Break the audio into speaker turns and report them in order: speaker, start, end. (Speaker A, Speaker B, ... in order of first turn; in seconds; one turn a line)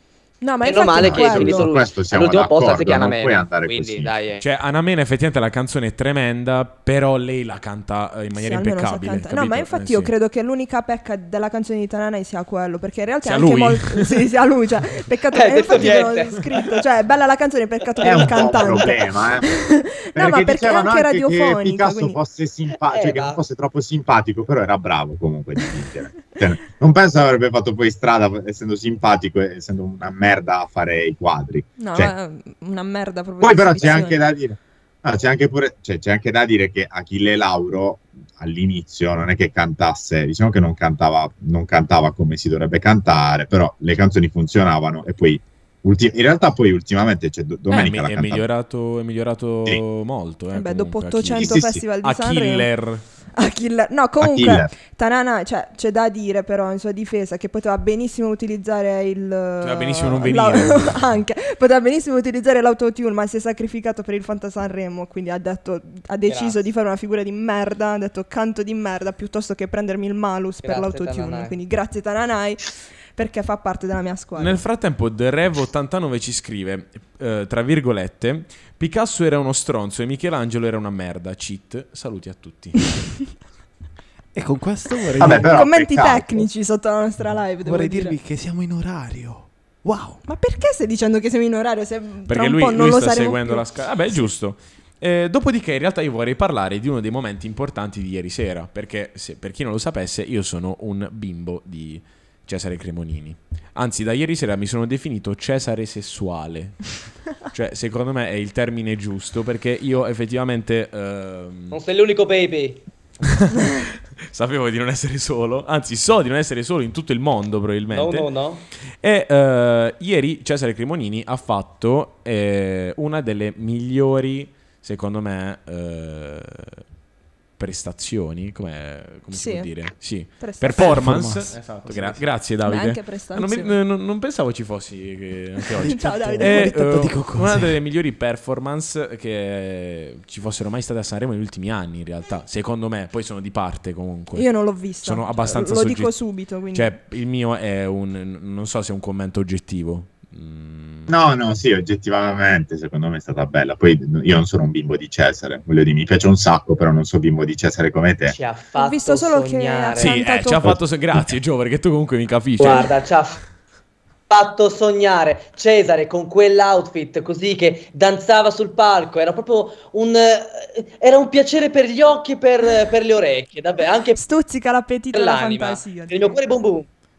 Speaker A: 0.4-1.7
Speaker B: 0.6-4.4
Speaker C: 1.0-4.1
Speaker D: 4.4-10.1
Speaker A: 8.3-22.2
Speaker D: 13.2-14.3
Speaker B: 15.3-16.8
Speaker B: 18.0-19.0
Speaker C: 18.0-32.1
Speaker B: 22.8-23.4
Speaker A: 31.8-34.2
Speaker C: 33.4-48.5
Speaker D: 47.7-53.0
Speaker A: 50.5-52.7
Speaker C: 51.3-51.8
Speaker A: 53.3-74.6
Speaker C: 54.2-54.7
Speaker D: 59.6-61.1
Speaker B: 66.2-66.6
Speaker B: 70.6-71.6
Speaker D: 74.4-82.9
Speaker E: 84.3-85.5
Speaker C: 85.2-86.5
Speaker A: 85.2-88.2
Speaker E: 87.6-90.2
Speaker A: 90.2-93.7
Speaker D: 92.3-111.8
Speaker B: 111.7-112.8
Speaker D: 113.2-118.3
Speaker B: 117.9-118.6
Speaker D: 118.8-126.8
Speaker D: 127.6-151.1
Speaker A: 129.3-129.7
Speaker A: 130.4-131.0
Speaker E: 130.7-132.2
Speaker A: 132.6-133.8
Speaker E: 135.7-137.8
Speaker A: 135.8-136.7
Speaker A: 144.3-146.9
Speaker C: 151.1-158.3
Speaker B: 158.3-160.2
Speaker A: 158.8-160.8
Speaker D: 160.0-162.9
Speaker C: 160.7-161.2
Speaker B: 162.6-163.4
Speaker B: 164.3-174.2
Speaker A: 174.2-176.4
Speaker B: 175.1-176.9